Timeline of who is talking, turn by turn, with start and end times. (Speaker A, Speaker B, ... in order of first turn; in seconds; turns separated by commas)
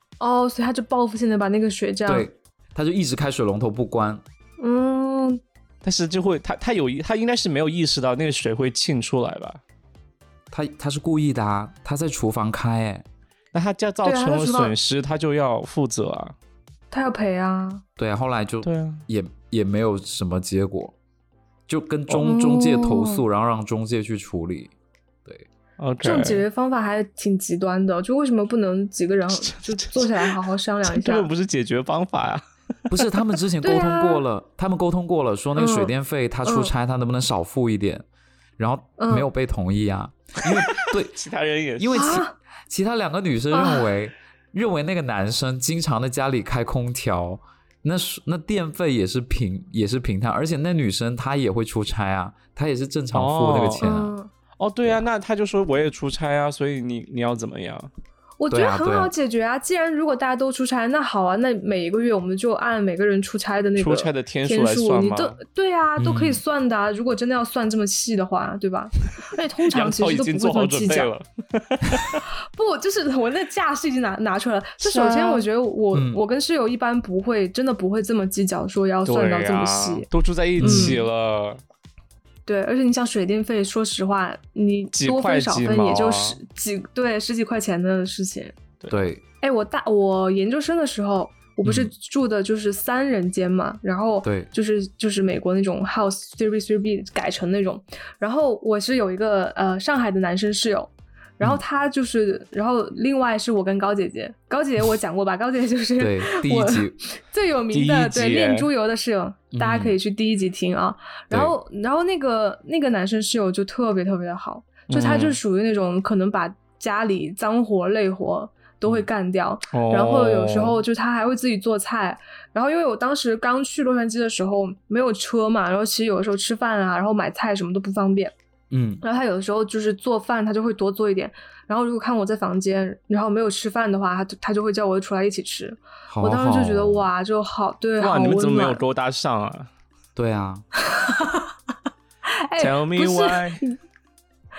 Speaker A: 0.2-2.3, Speaker B: 2.1-4.2, Speaker A: 4.6-5.4, Speaker C: 5.8-9.6, Speaker B: 10.5-13.0, Speaker C: 13.5-16.4, Speaker A: 14.0-14.7, Speaker A: 16.9-17.8, Speaker B: 18.0-21.0, Speaker C: 18.6-19.0, Speaker B: 21.7-24.7, Speaker A: 22.2-23.2, Speaker C: 25.8-26.4, Speaker A: 26.0-31.3, Speaker C: 29.3-33.0, Speaker B: 32.9-38.0, Speaker A: 33.6-34.2, Speaker A: 35.6-35.9, Speaker A: 36.4-36.7, Speaker B: 38.6-41.2, Speaker A: 39.0-39.3, Speaker C: 40.5-42.1, Speaker B: 41.8-54.1, Speaker A: 41.9-42.3, Speaker A: 43.5-43.9, Speaker C: 53.1-53.9, Speaker A: 53.8-54.3, Speaker C: 54.6-57.9, Speaker A: 58.4-71.1, Speaker B: 58.5-59.1, Speaker C: 63.8-65.4, Speaker B: 66.0-66.4, Speaker C: 69.7-72.2, Speaker A: 72.5-80.1, Speaker C: 74.8-75.5, Speaker B: 75.9-76.2, Speaker C: 79.1-81.6, Speaker B: 80.6-81.0, Speaker A: 80.6-81.0, Speaker A: 82.5-88.6, Speaker C: 84.9-86.4, Speaker B: 88.9-89.2, Speaker A: 89.4-128.3, Speaker B: 91.6-91.9, Speaker B: 94.2-94.5, Speaker B: 106.0-107.0, Speaker C: 107.7-108.7, Speaker B: 109.5-110.0, Speaker C: 114.9-115.4, Speaker C: 119.7-120.8, Speaker B: 128.7-129.0, Speaker A: 129.0-138.8, Speaker B: 136.1-137.1, Speaker C: 138.0-139.7, Speaker B: 140.2-140.6, Speaker A: 140.8-141.5, Speaker A: 142.2-143.8, Speaker C: 142.6-143.6